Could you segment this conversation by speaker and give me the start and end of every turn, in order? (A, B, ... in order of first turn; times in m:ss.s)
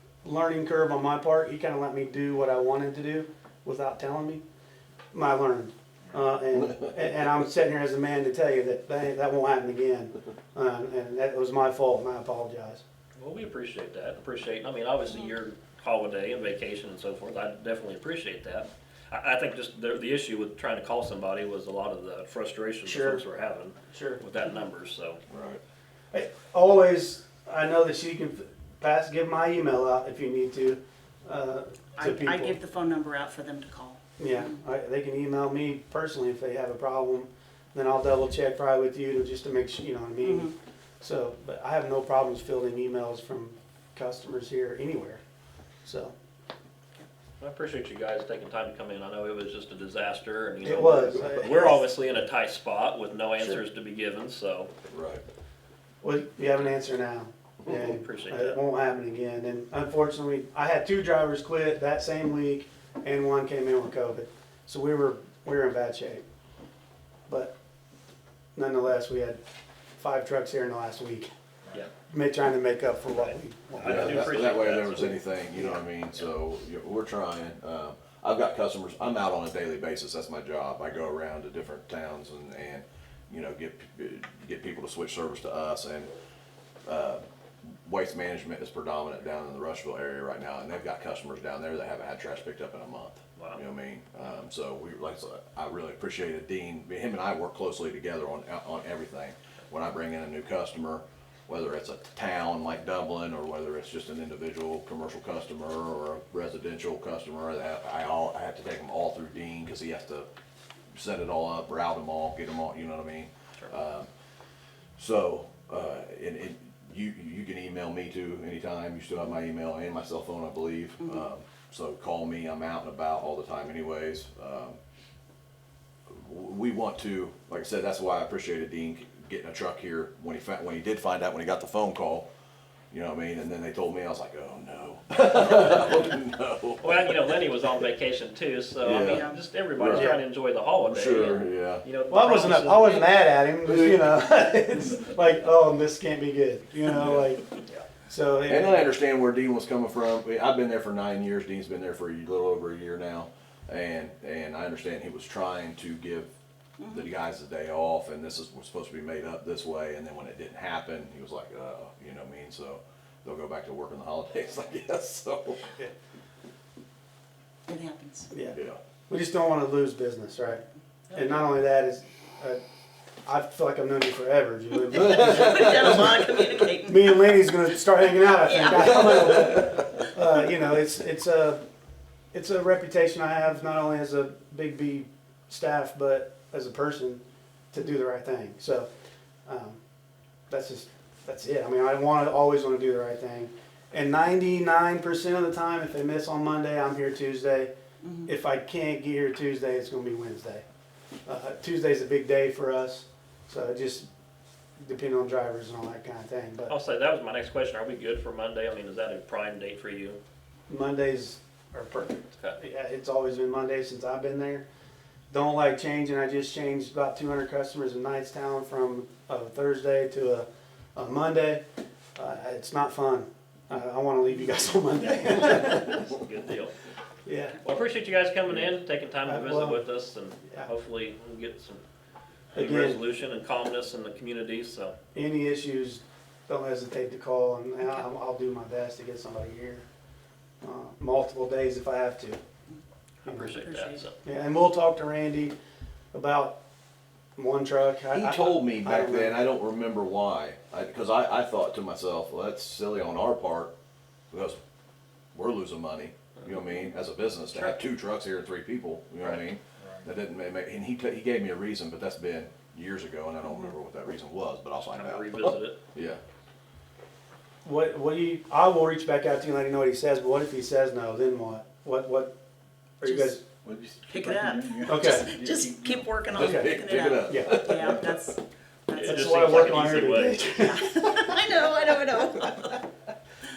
0:00.2-0:04.4 A
0:05.1-0:12.8 A
0:13.2-0:25.2 B
0:22.8-0:23.2 A
0:23.9-0:24.2 A
0:25.3-0:25.6 C
0:26.1-0:32.6 A
0:32.0-0:34.6 D
0:34.2-0:45.2 A
0:40.2-0:40.5 D
0:45.8-0:46.1 A
0:47.4-0:54.7 B
0:50.6-0:51.8 A
0:54.9-0:55.2 C
0:56.0-1:06.2 A
0:57.7-0:58.6 B
1:07.3-1:07.5 A
1:08.5-1:09.4 A
1:10.0-1:11.3 A
1:12.1-1:14.4 A
1:13.8-1:15.2 B
1:13.8-1:26.1 C
1:15.5-1:15.8 A
1:26.8-1:27.2 C
1:27.8-1:50.3 C
1:33.4-1:33.6 B
1:50.9-1:54.1 C
1:55.0-2:04.8 C
2:06.1-2:12.3 C
2:12.9-2:17.1 C
2:15.5-2:15.9 B
2:16.8-2:23.1 B
2:18.8-2:20.2 C
2:18.9-2:19.4 D
2:19.9-2:20.2 A
2:20.8-2:21.8 C
2:22.1-2:27.4 A
2:23.6-2:24.0 C
2:26.9-2:27.2 C
2:28.1-2:28.9 A
2:28.5-2:36.3 C
2:36.8-2:37.0 D
2:36.9-2:45.7 C
2:47.7-2:48.3 D
2:48.3-2:48.6 A
2:48.5-2:48.8 C
2:49.1-2:52.6 A
2:53.2-2:56.3 A
2:54.9-2:57.4 D
2:56.8-3:01.6 A
2:58.4-2:59.4 D
3:02.3-3:08.9 A
3:09.4-3:09.8 A
3:10.5-3:17.7 A
3:18.0-3:18.3 D
3:18.2-3:20.6 A
3:21.2-3:24.1 A
3:24.8-3:26.7 A
3:26.7-3:30.2 B
3:30.7-3:34.6 A
3:35.3-3:41.6 A
3:42.2-3:46.2 A
3:45.9-3:46.7 B
3:47.2-3:47.6 A
3:47.6-3:51.8 B
3:49.2-3:49.8 A
3:52.5-3:53.0 A
3:52.5-3:54.9 B
3:55.1-3:59.8 A
4:00.6-4:02.4 A
4:03.2-4:04.2 B
4:03.2-4:03.6 A
4:03.6-4:04.0 D
4:04.2-4:05.5 A
4:06.1-4:06.6 A
4:07.4-4:09.4 A
4:08.1-4:13.7 C
4:14.3-4:14.6 C
4:15.3-4:26.2 C
4:24.8-4:25.8 B
4:27.6-4:32.3 A
4:33.0-4:33.4 A
4:33.0-4:33.4 D
4:33.6-4:36.2 E
4:34.0-4:39.9 D
4:34.8-4:35.3 A
4:36.3-4:38.2 C
4:36.3-4:37.6 A
4:38.9-4:41.4 A
4:39.0-4:40.6 B
4:40.6-4:42.8 D